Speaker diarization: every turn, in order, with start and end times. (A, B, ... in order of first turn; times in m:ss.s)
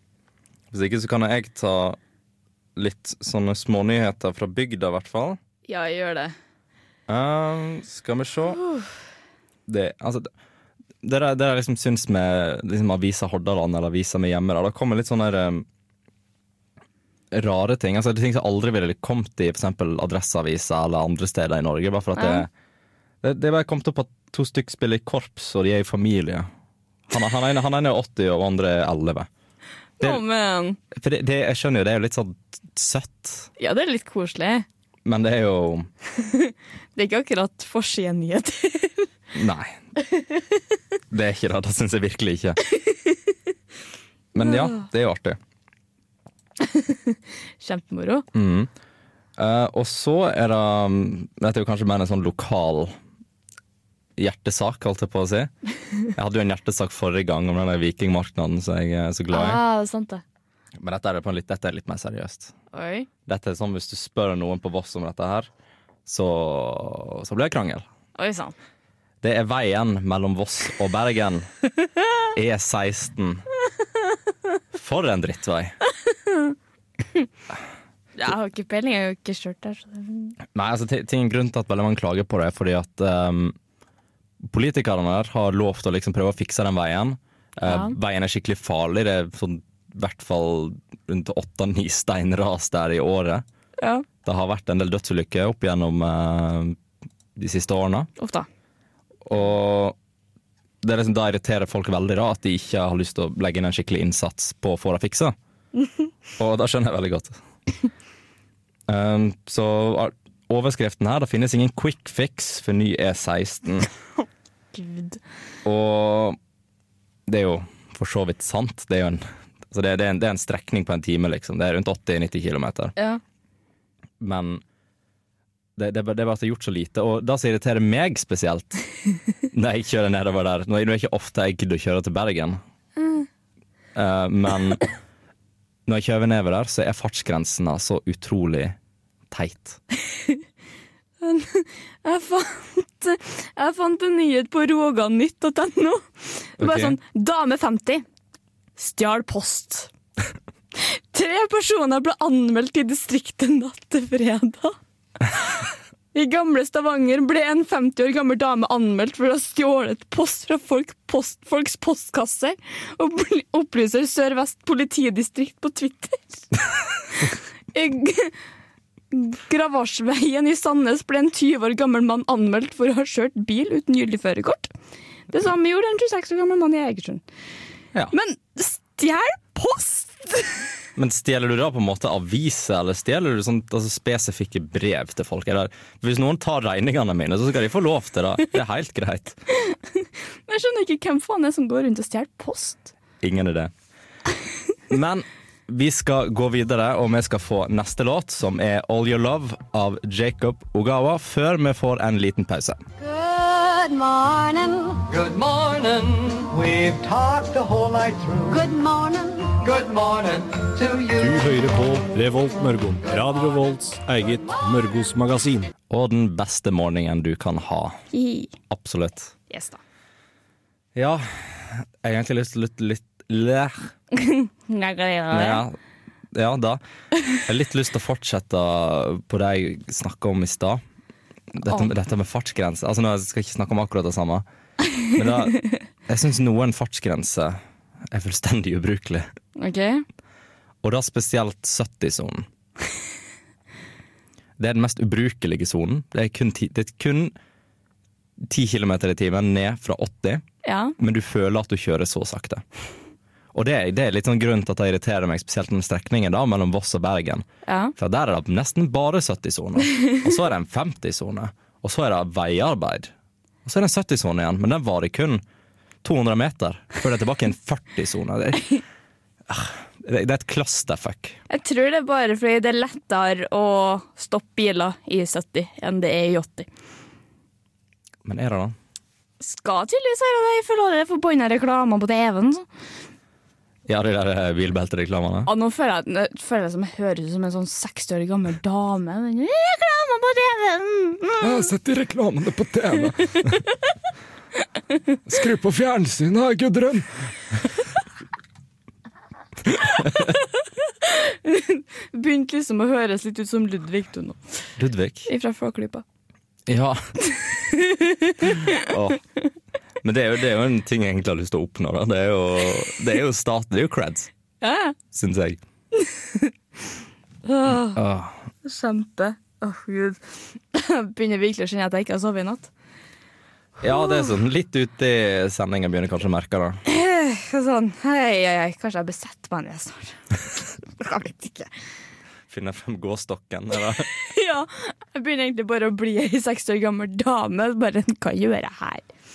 0:00.7-0:02.0 A
0:02.8-0:05.4 A
0:05.7-0:06.3 B
0:07.1-0:08.6 A
0:09.7-0:10.3 A
0:11.0-0:15.6 A
0:17.3-0:22.5 A
0:22.2-0:22.4 B
0:23.2-0:26.5 A
0:27.1-0:29.3 A
0:30.0-0:30.8 B
0:30.9-0:33.5 A
0:33.6-0:34.6 B
0:35.0-0:35.9 A
0:36.2-0:39.1 B
0:39.3-0:39.8 A
0:41.1-0:42.6 A
0:44.3-0:45.4 A
0:44.4-0:44.8 B
0:46.6-0:48.2 B
0:48.3-0:48.7 A
0:49.4-0:52.9 A
0:54.2-0:55.5 A
0:56.1-0:59.6 A
0:59.3-1:00.2 B
1:00.8-1:02.5 A
1:02.7-1:03.1 B
1:03.2-1:05.5 A
1:06.0-1:07.8 A
1:08.2-1:08.5 B
1:09.2-1:11.5 A
1:12.3-1:13.4 A
1:14.7-1:15.8 A
1:16.0-1:16.5 B
1:18.2-1:20.4 B
1:20.5-1:23.6 A
1:24.4-1:33.4 A
1:27.6-1:28.0 B
1:33.8-1:34.0 B
1:34.2-1:36.8 A
1:37.4-1:38.1 A
1:38.2-1:38.5 B
1:39.2-1:40.0 A
1:40.8-1:45.3 A
1:46.4-1:47.4 A
1:48.9-1:53.9 A
1:54.7-1:55.2 B
1:55.6-1:56.4 A
1:57.3-2:02.9 A
2:04.2-2:04.6 A
2:05.8-2:08.9 A
2:09.5-2:12.6 A
2:13.0-2:13.3 B
2:13.9-2:14.8 A
2:15.8-2:18.8 A
2:19.3-2:19.8 A
2:21.2-2:28.0 B
2:26.6-2:27.0 A
2:28.8-2:29.9 B
2:30.7-2:34.8 B
2:35.3-2:35.6 B
2:36.1-2:46.5 B
2:47.7-2:48.4 B
2:49.1-2:54.7 B
2:55.3-2:57.2 B
2:58.1-3:00.6 B
3:01.0-3:09.4 A
3:09.6-3:12.9 B
3:13.2-3:13.7 A
3:14.9-3:22.8 A
3:23.0-3:25.1 C
3:25.1-3:28.6 D
3:28.5-3:29.6 C
3:29.6-3:31.5 D
3:31.2-3:35.7 E
3:35.9-3:38.0 A
3:38.1-3:38.5 B
3:38.7-3:39.3 A
3:39.5-3:39.8 B
3:40.9-3:43.9 A
3:44.2-3:45.6 B
3:45.3-3:45.8 A
3:46.3-3:46.8 A
3:47.3-3:50.8 A
3:51.5-3:54.4 A
3:55.1-3:59.3 A
3:59.6-4:00.0 B
4:00.8-4:02.4 A
4:04.6-4:07.3 A
4:08.4-4:10.4 A
4:10.6-4:10.9 B
4:11.0-4:12.6 A
4:13.5-4:17.4 A
4:17.7-4:17.9 B
4:18.0-4:23.1 A
4:23.6-4:25.4 A
4:26.0-4:28.8 A
4:29.5-4:31.4 A
4:31.5-4:36.7 B
4:38.2-4:38.8 A
4:39.4-4:42.6 B
4:43.9-4:45.5 A
4:45.5-4:51.7 B
4:51.4-4:53.6 A
4:55.2-4:57.9 A
4:59.7-5:00.3 A
5:00.0-5:00.4 B
5:01.0-5:04.7 B
5:04.8-5:05.3 A
5:05.3-5:06.0 B
5:06.7-5:07.2 A
5:07.4-5:08.8 B
5:08.7-5:09.2 A
5:10.0-5:14.3 A
5:14.6-5:15.0 B
5:15.1-5:15.6 A
5:16.0-5:16.5 B
5:17.4-5:18.0 B
5:17.7-5:18.4 A
5:18.6-5:22.7 B
5:23.8-5:26.8 A
5:23.9-5:24.3 B
5:26.9-5:31.7 B
5:32.5-5:34.1 A
5:34.1-5:39.1 B